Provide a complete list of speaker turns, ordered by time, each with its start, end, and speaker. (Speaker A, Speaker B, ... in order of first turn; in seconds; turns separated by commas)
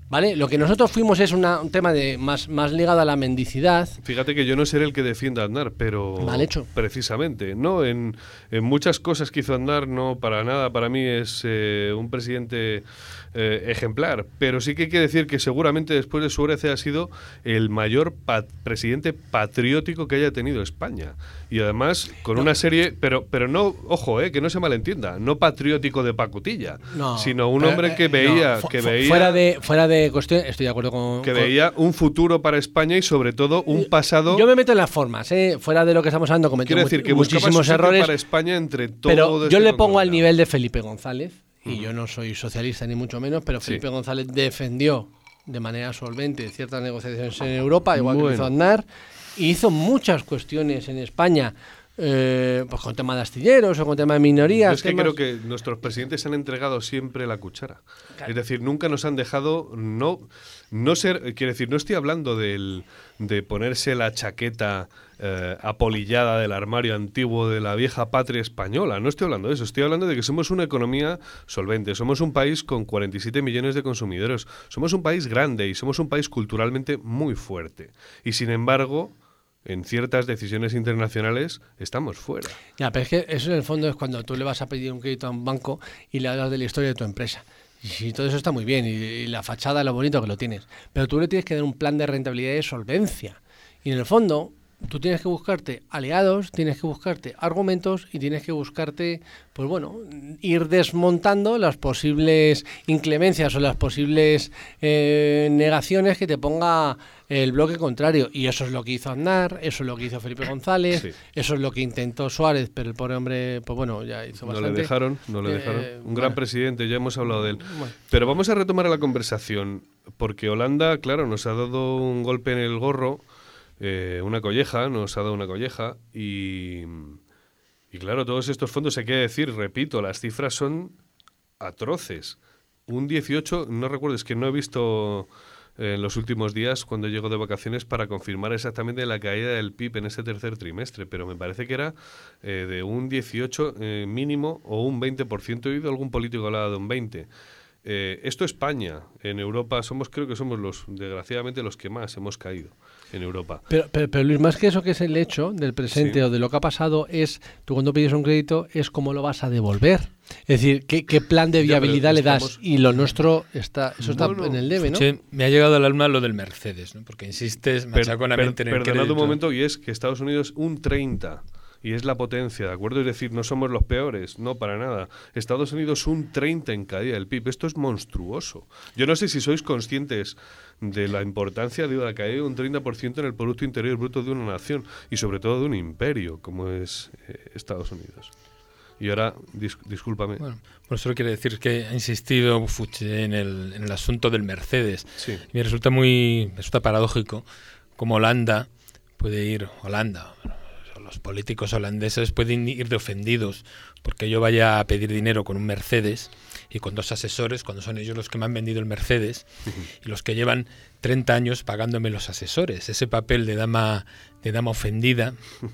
Speaker A: 0.1-4.0, Speaker B: 4.0-29.4, Speaker A: 6.2-6.7, Speaker A: 26.9-31.5, Speaker B: 31.2-34.5, Speaker A: 33.7-38.1, Speaker B: 36.6-40.2, Speaker A: 39.1-55.2, Speaker B: 48.0-48.5, Speaker B: 54.6-82.6, Speaker A: 82.8-114.9, Speaker B: 114.5-123.2, Speaker A: 115.4-116.4, Speaker A: 117.6-117.9, Speaker B: 123.8-127.2, Speaker B: 127.9-130.9, Speaker B: 131.6-147.3, Speaker B: 147.8-153.6, Speaker A: 153.7-165.1, Speaker B: 155.9-156.2, Speaker B: 161.6-162.6, Speaker B: 164.0-164.6, Speaker C: 164.8-169.4, Speaker B: 167.9-188.3, Speaker B: 189.0-190.4, Speaker C: 190.4-197.4, Speaker C: 198.0-209.5, Speaker C: 210.0-215.4